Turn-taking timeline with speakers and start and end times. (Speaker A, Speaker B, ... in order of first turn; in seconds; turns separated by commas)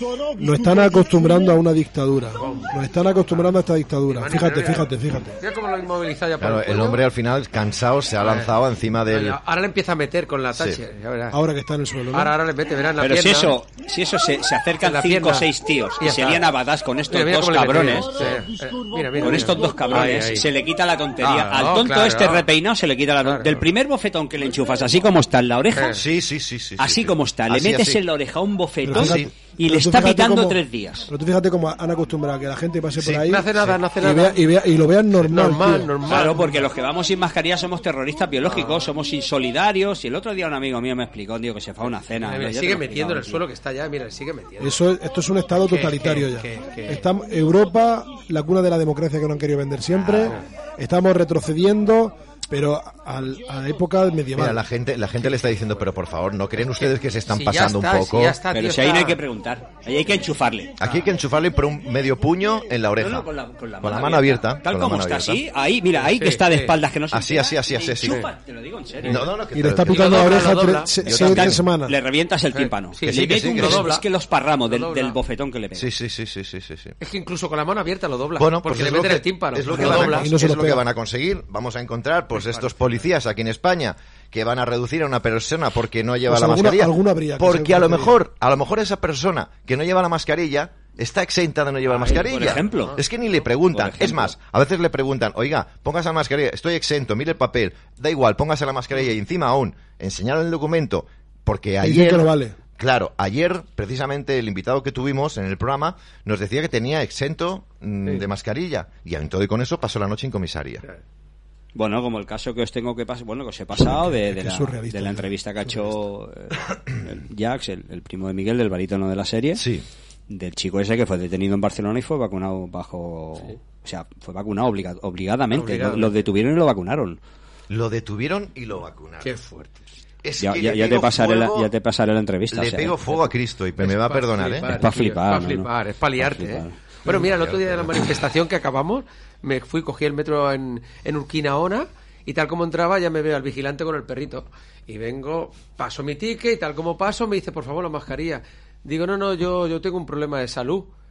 Speaker A: 0.3-5.4, Speaker B: 2.4-2.7, Speaker B: 4.1-4.9, Speaker B: 5.4-7.0, Speaker C: 6.4-9.4, Speaker B: 8.2-8.5, Speaker B: 9.1-11.4, Speaker C: 10.5-10.8, Speaker A: 11.3-12.3, Speaker B: 12.1-13.6, Speaker D: 13.0-18.3, Speaker B: 14.8-16.4, Speaker B: 17.1-20.5, Speaker D: 19.2-26.0, Speaker B: 21.2-22.4, Speaker B: 23.2-23.6, Speaker B: 25.7-26.0, Speaker C: 25.9-28.0, Speaker D: 26.8-31.1, Speaker A: 28.8-35.9, Speaker C: 28.9-29.3, Speaker B: 33.0-34.4, Speaker B: 35.2-36.6, Speaker D: 36.0-43.4, Speaker B: 38.5-38.8, Speaker B: 42.2-44.8, Speaker A: 44.6-54.6, Speaker B: 45.7-47.0, Speaker B: 50.1-50.4, Speaker C: 54.3-58.4, Speaker B: 57.3-59.2, Speaker D: 58.5-60.7, Speaker C: 60.8-63.3, Speaker D: 63.0-69.2, Speaker C: 63.8-65.4, Speaker B: 66.0-66.7, Speaker C: 67.1-68.2, Speaker C: 69.0-71.6, Speaker A: 69.5-71.9, Speaker B: 69.9-70.9, Speaker D: 71.0-75.9, Speaker B: 72.5-74.0, Speaker C: 73.1-73.9, Speaker B: 74.7-75.2, Speaker C: 75.7-77.0, Speaker B: 77.0-80.3, Speaker C: 78.4-110.8, Speaker A: 79.7-80.8, Speaker B: 82.4-82.7, Speaker A: 86.3-88.2, Speaker B: 91.9-93.0, Speaker D: 92.1-93.0, Speaker D: 93.7-94.3, Speaker A: 101.8-102.5, Speaker D: 111.7-119.6, Speaker A: 113.8-116.0, Speaker C: 119.6-119.8, Speaker D: 120.3-127.2, Speaker B: 125.5-126.1, Speaker C: 127.7-129.3, Speaker B: 129.2-129.8, Speaker C: 130.2-131.7, Speaker D: 130.4-133.3, Speaker C: 132.5-134.7, Speaker B: 133.8-150.9, Speaker D: 134.7-136.8, Speaker C: 137.1-138.0